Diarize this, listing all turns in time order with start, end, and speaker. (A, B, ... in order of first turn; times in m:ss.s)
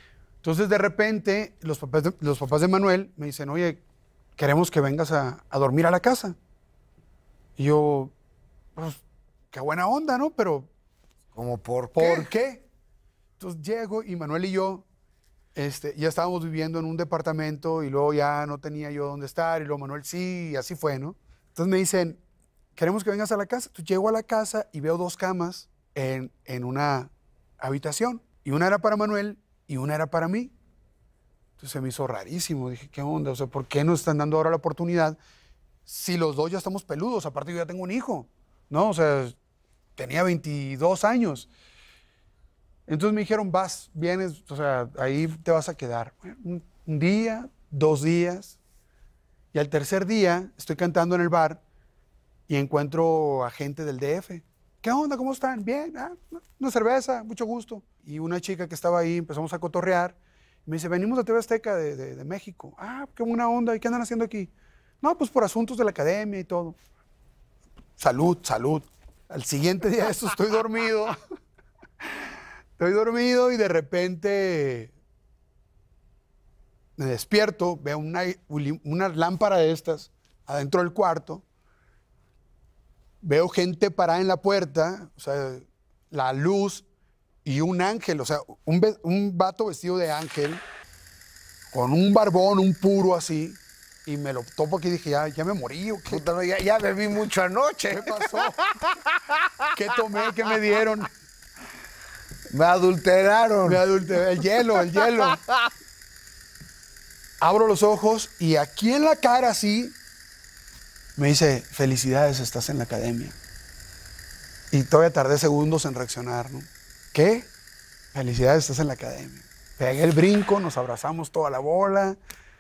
0:00.4-0:03.8 A
0:04.4-0:06.4 A
0:07.6-0:08.1 A
0:08.8-0:10.7 A
0:11.3-0:12.3 B
0:11.9-0:12.7 A
0:13.4-0:14.8 A
0:15.6-0:22.2 A
0:22.8-0:30.5 A
0:31.6-0:35.2 A
0:35.9-0:39.4 A
0:40.0-0:41.5 A
0:42.9-0:48.6 A
0:49.5-0:51.6 A
0:52.5-1:04.5 A
1:05.0-1:06.8 A
1:08.0-1:11.2 A
1:12.8-1:14.9 A
1:17.0-1:21.4 A
1:23.2-1:26.9 A
1:27.4-1:30.6 A
1:31.7-1:36.2 A
1:36.1-1:39.4 B
1:37.9-1:38.6 A
1:39.7-1:41.1 A
1:42.5-1:43.8 B
1:43.6-1:45.4 A
1:47.4-1:50.0 A
1:51.2-1:53.4 A
1:54.7-1:57.5 A
1:58.1-2:02.2 A